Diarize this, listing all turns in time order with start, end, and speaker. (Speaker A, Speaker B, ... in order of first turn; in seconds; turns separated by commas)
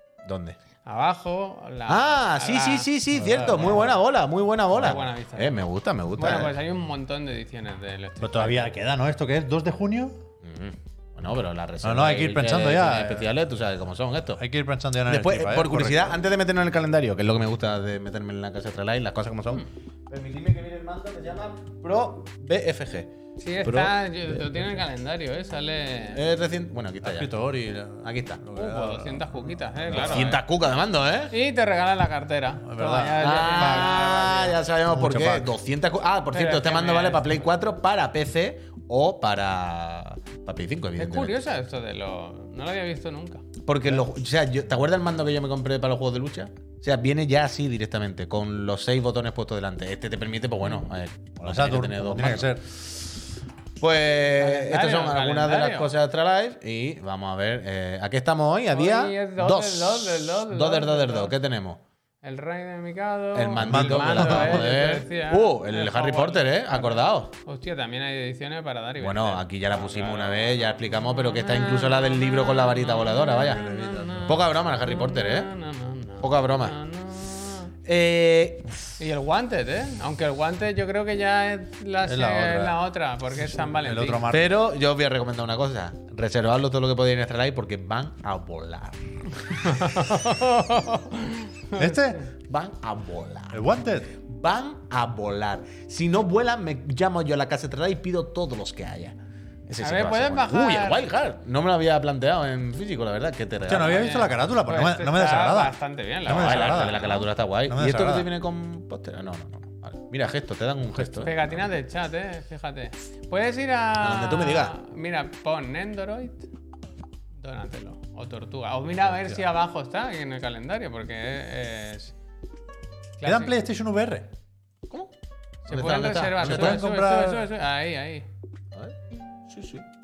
Speaker A: 0.2-0.6, Speaker B: 0.8-2.9, Speaker A: 1.9-6.5, Speaker C: 3.1-4.0, Speaker B: 4.8-5.6, Speaker B: 6.2-8.7, Speaker C: 8.2-10.2, Speaker A: 10.4-14.4, Speaker C: 11.8-13.3, Speaker C: 14.4-16.2, Speaker A: 15.1-23.1, Speaker B: 23.4-26.2, Speaker A: 23.6-23.9, Speaker A: 26.1-27.3, Speaker C: 27.0-30.4, Speaker A: 28.0-28.4, Speaker B: 28.5-30.4, Speaker A: 29.9-31.3, Speaker B: 31.3-34.6, Speaker C: 32.6-34.0, Speaker A: 33.2-41.4, Speaker C: 34.9-35.5, Speaker B: 36.3-37.3, Speaker B: 41.0-43.5, Speaker A: 43.6-52.5, Speaker C: 51.4-52.7, Speaker A: 53.8-61.8, Speaker B: 54.4-55.9, Speaker B: 58.7-61.3, Speaker B: 62.2-77.7, Speaker A: 63.3-67.3, Speaker C: 63.6-64.7, Speaker A: 69.0-75.5, Speaker C: 73.5-74.4, Speaker A: 76.2-76.8, Speaker A: 77.8-79.0, Speaker B: 79.0-84.3, Speaker C: 82.0-82.8, Speaker C: 83.4-84.6, Speaker A: 84.3-90.1, Speaker B: 89.5-92.2, Speaker C: 91.8-92.2, Speaker A: 92.5-93.7, Speaker C: 93.5-94.1, Speaker A: 94.2-99.2, Speaker A: 99.7-104.0, Speaker B: 99.8-101.1, Speaker C: 103.7-107.1, Speaker B: 103.8-107.3, Speaker A: 106.3-111.6, Speaker C: 107.7-108.3, Speaker B: 111.0-116.5, Speaker A: 114.0-114.7, Speaker B: 117.4-122.1, Speaker B: 123.2-123.5, Speaker C: 123.2-124.3, Speaker A: 125.7-126.8, Speaker B: 125.7-128.3, Speaker C: 126.4-127.5, Speaker A: 129.5-129.8